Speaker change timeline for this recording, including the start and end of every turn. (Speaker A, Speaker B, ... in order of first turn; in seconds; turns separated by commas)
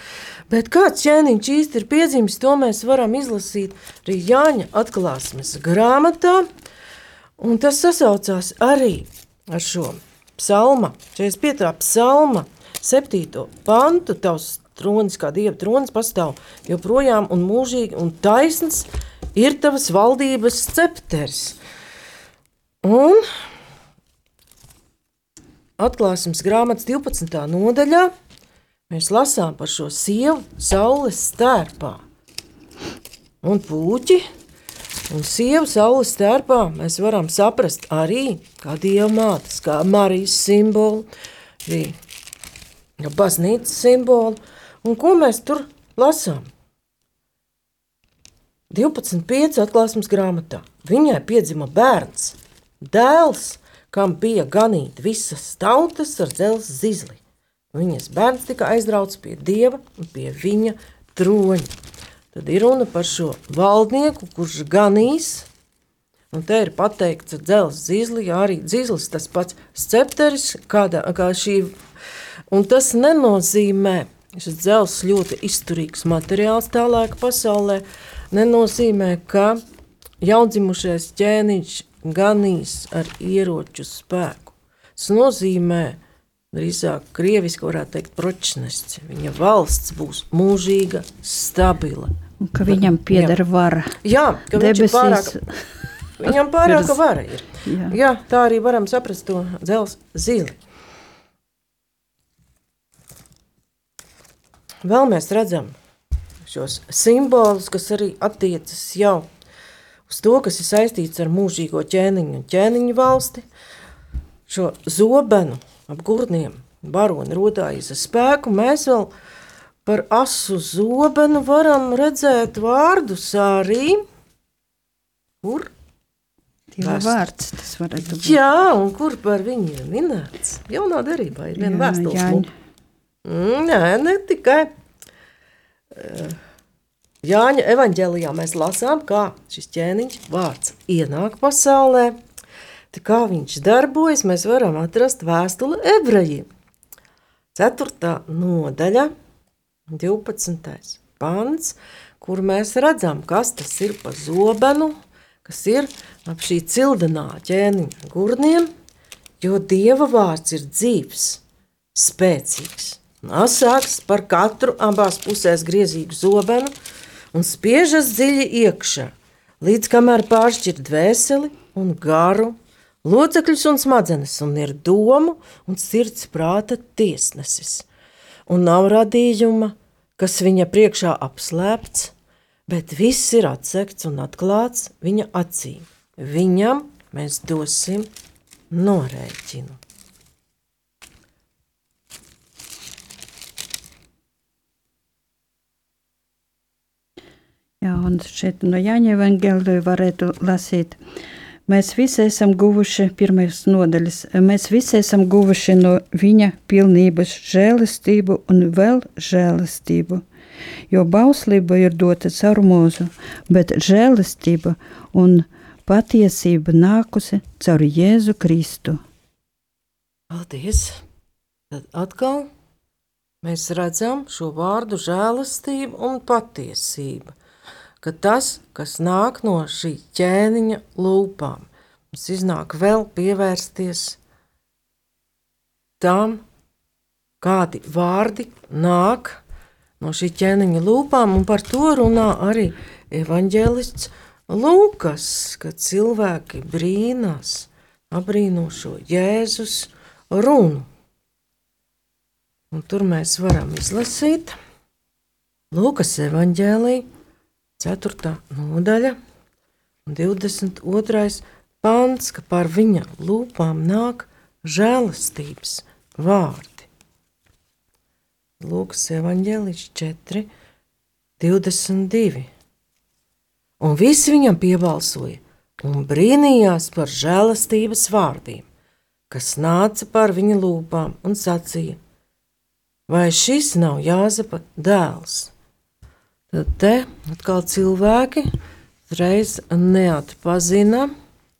Speaker A: 0.5-6.5, Speaker A: 7.4-21.6, Speaker A: 22.8-23.2, Speaker A: 25.8-28.1, Speaker A: 28.9-32.0, Speaker A: 33.4-34.2, Speaker A: 35.1-41.1, Speaker A: 41.6-42.0, Speaker A: 43.0-46.5, Speaker A: 48.7-57.2, Speaker A: 57.7-61.7, Speaker A: 62.3-65.5, Speaker A: 66.3-71.8, Speaker A: 72.5-79.6, Speaker A: 80.2-86.0, Speaker A: 86.5-92.1, Speaker B: 92.5-94.0, Speaker A: 92.7-93.4, Speaker A: 94.0-95.4, Speaker B: 94.5-95.7, Speaker A: 96.2-100.6, Speaker B: 96.6-97.0, Speaker B: 97.6-98.0, Speaker A: 104.8-105.8, Speaker A: 106.4-109.3, Speaker A: 110.1-113.5, Speaker A: 114.5-119.1, Speaker A: 119.8-124.0, Speaker A: 125.4-125.7, Speaker B: 126.7-128.4, Speaker A: 126.8-127.2, Speaker A: 128.0-132.5, Speaker B: 131.6-132.5, Speaker A: 133.2-134.7, Speaker A: 135.9-136.4, Speaker A: 137.2-142.2, Speaker A: 142.9-146.5, Speaker A: 147.5-149.1, Speaker A: 149.9-158.7, Speaker A: 159.4-161.4, Speaker A: 161.9-166.7, Speaker A: 167.3-177.9, Speaker A: 178.5-182.1, Speaker A: 182.7-188.1, Speaker A: 188.7-189.8, Speaker B: 197.8-201.0, Speaker B: 201.7-210.2, Speaker B: 210.9-219.0, Speaker A: 220.3-221.0, Speaker A: 221.7-222.5, Speaker A: 223.4-227.3, Speaker A: 228.0-234.2, Speaker A: 236.0-236.4, Speaker A: 237.4-239.4, Speaker A: 240.0-250.9, Speaker A: 252.7-254.6, Speaker A: 255.7-257.1, Speaker A: 257.8-259.2, Speaker A: 260.1-266.9, Speaker A: 268.6-270.5, Speaker A: 271.4-272.5, Speaker A: 273.8-278.7, Speaker A: 279.3-282.0, Speaker A: 283.1-285.5, Speaker A: 286.5-288.5, Speaker A: 289.1-291.1